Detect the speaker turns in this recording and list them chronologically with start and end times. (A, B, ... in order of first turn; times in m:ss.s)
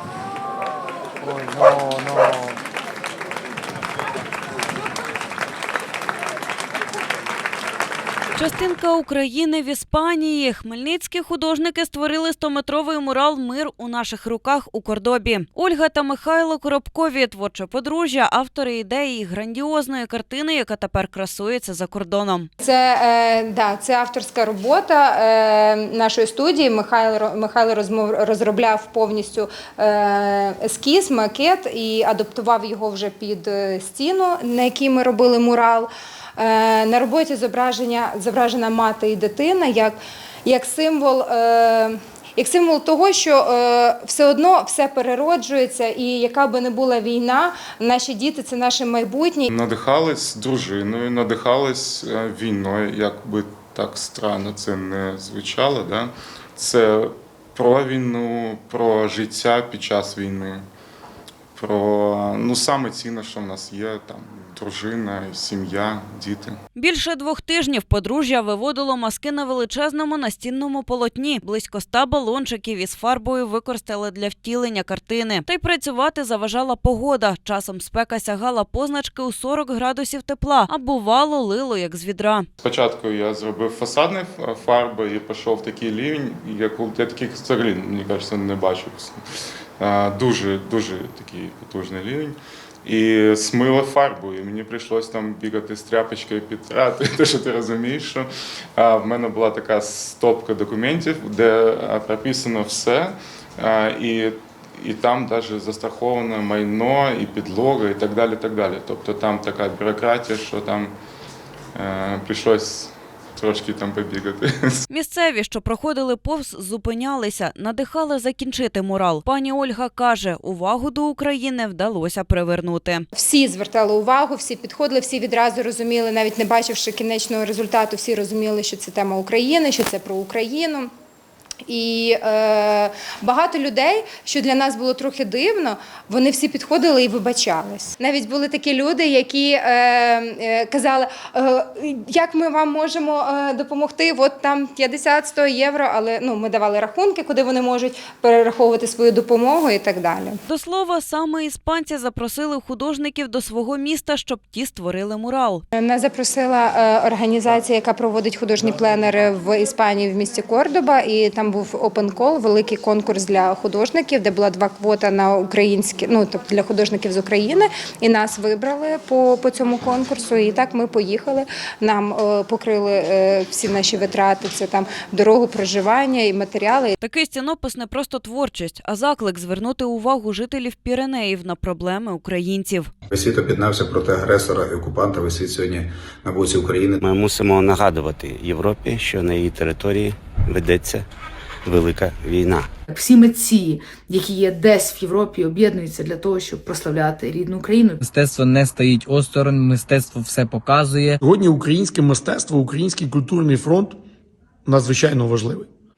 0:08.4-0:22.5 A
0:22.6-0:49.5 B
0:49.5-1:00.6 C
1:01.6-1:06.6 C
1:06.8-1:22.5 A
1:22.6-1:29.2 C
1:29.8-1:50.9 C
1:51.8-1:54.8 C
1:54.9-2:03.1 A
2:03.1-2:10.9 B
2:11.7-2:30.4 B
2:30.5-2:35.6 A
2:35.8-2:57.0 B
2:57.0-3:02.9 A
3:03.1-3:07.0 D
3:07.0-3:11.1 E
3:11.6-3:12.7 E
3:12.9-3:18.0 F
3:18.0-3:21.2 G
3:21.2-3:24.0 H
3:24.7-3:25.7 H